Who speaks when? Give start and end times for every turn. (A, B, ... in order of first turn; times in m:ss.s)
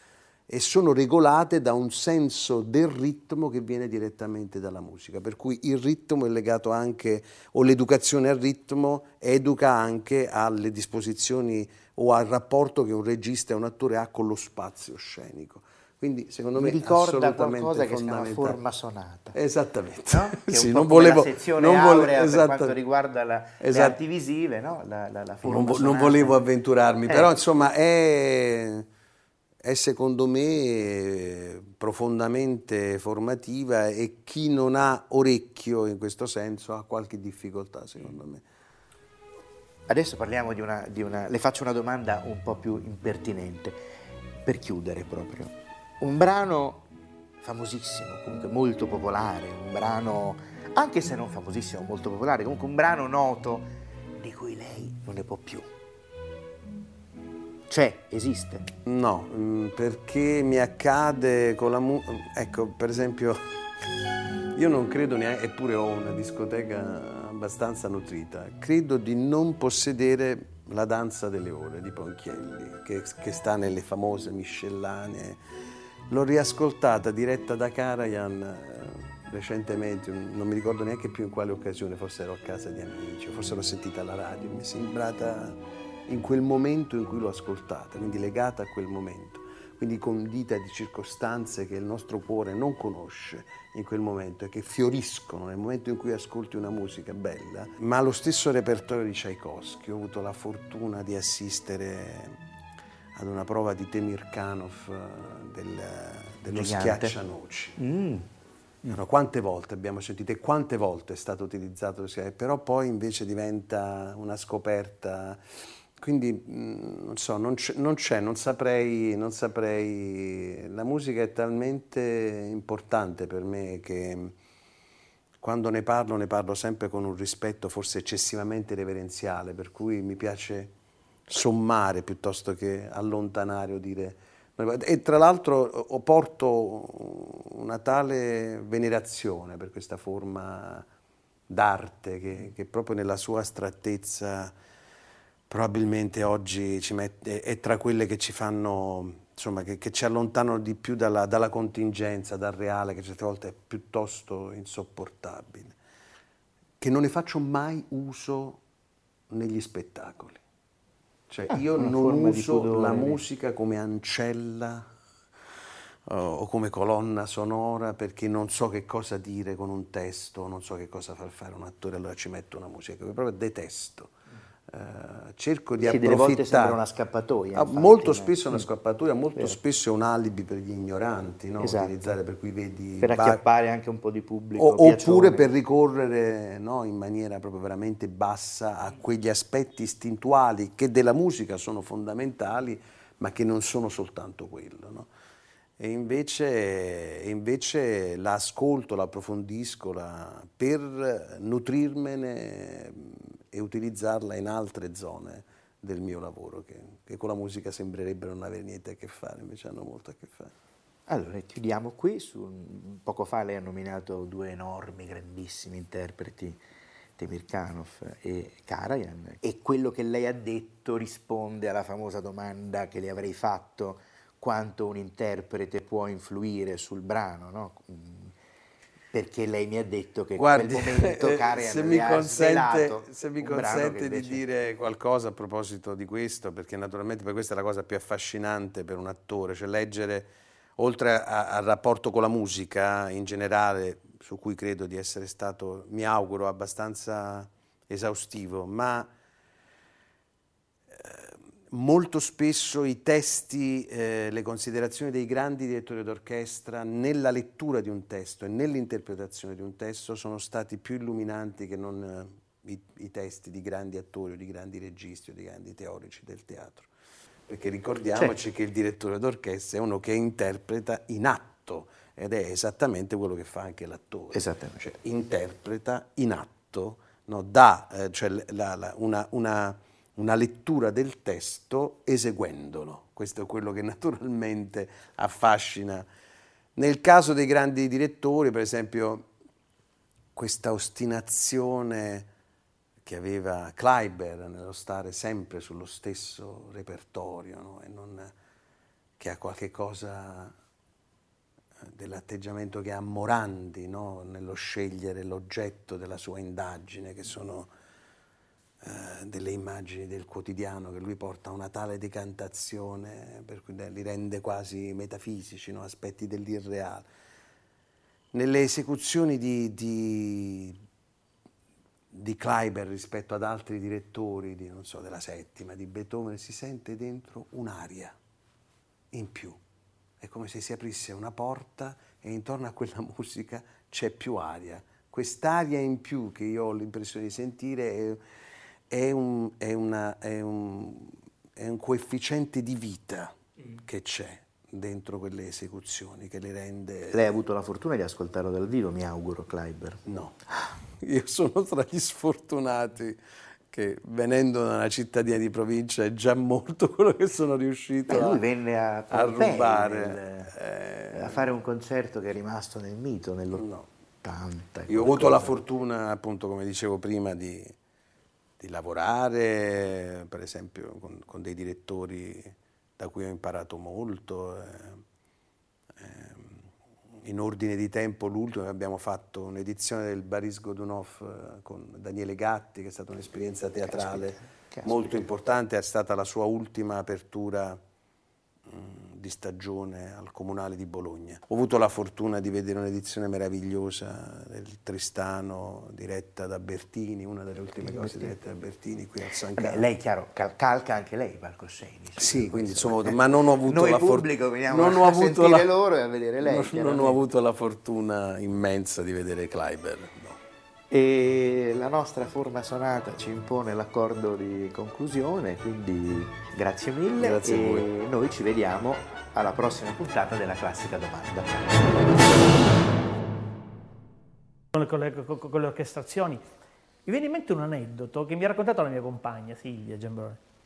0:00.5-0:18.6 A
0:16.5-0:19.4 B
0:19.3-0:22.8 A
0:20.1-0:26.4 B
0:23.6-0:24.0 A
0:25.4-0:28.8 A
0:29.6-0:38.4 A
0:39.9-0:43.8 B
0:44.4-0:46.9 B
0:47.4-0:55.7 B
0:57.7-0:58.7 B
0:58.8-1:03.4 A
1:04.5-1:15.4 A
1:16.1-1:42.4 A
1:43.1-1:47.8 A
1:46.5-1:47.2 B
1:47.8-1:48.3 B
1:48.8-1:55.4 A
1:56.0-2:04.4 A
2:05.4-2:10.7 A
2:11.3-2:20.8 A
2:21.5-2:24.5 A
2:25.5-2:35.8 A
2:36.8-2:38.6 A
2:39.3-2:40.4 A
2:41.3-2:44.9 A
2:41.5-2:43.2 B
2:46.0-2:54.1 A
2:54.7-2:56.8 A
2:55.8-2:58.7 B
2:57.5-3:03.4 A
3:01.6-3:02.1 B
3:03.0-3:05.5 B
3:04.6-3:15.1 A
3:15.8-3:30.5 A
3:31.1-3:36.6 B
3:37.2-3:48.3 B
3:49.1-3:54.4 B
3:50.4-4:09.1 A
4:10.9-4:26.9 A
4:27.5-4:46.0 A
4:34.3-4:34.8 B
4:46.8-4:49.3 A
4:50.3-4:52.3 A
4:53.0-4:58.3 A
4:59.2-5:00.5 A
5:01.8-5:07.7 A
5:08.8-5:17.0 A
5:18.3-5:20.8 A
5:22.1-5:28.2 A
5:29.1-5:29.6 A
5:30.2-5:38.2 A
5:38.9-5:47.2 A
5:47.1-5:50.0 B
5:50.0-5:50.3 A
5:51.0-5:53.2 A
5:53.7-5:58.4 A
5:58.1-6:00.5 B
5:59.1-6:01.4 A
6:01.1-6:03.7 B
6:03.5-6:03.9 A
6:04.2-6:05.5 B
6:04.9-6:07.8 A
6:08.6-6:15.0 A
6:16.0-6:16.7 A
6:17.2-6:27.8 A
6:23.8-6:25.2 B
6:28.6-6:39.8 A
6:37.8-6:38.3 B
6:39.5-6:47.2 B
6:42.2-6:45.7 A
6:46.4-6:50.4 A
6:50.9-7:01.7 B
6:57.2-6:57.8 A
7:04.7-7:06.4 C
7:07.0-7:10.4 C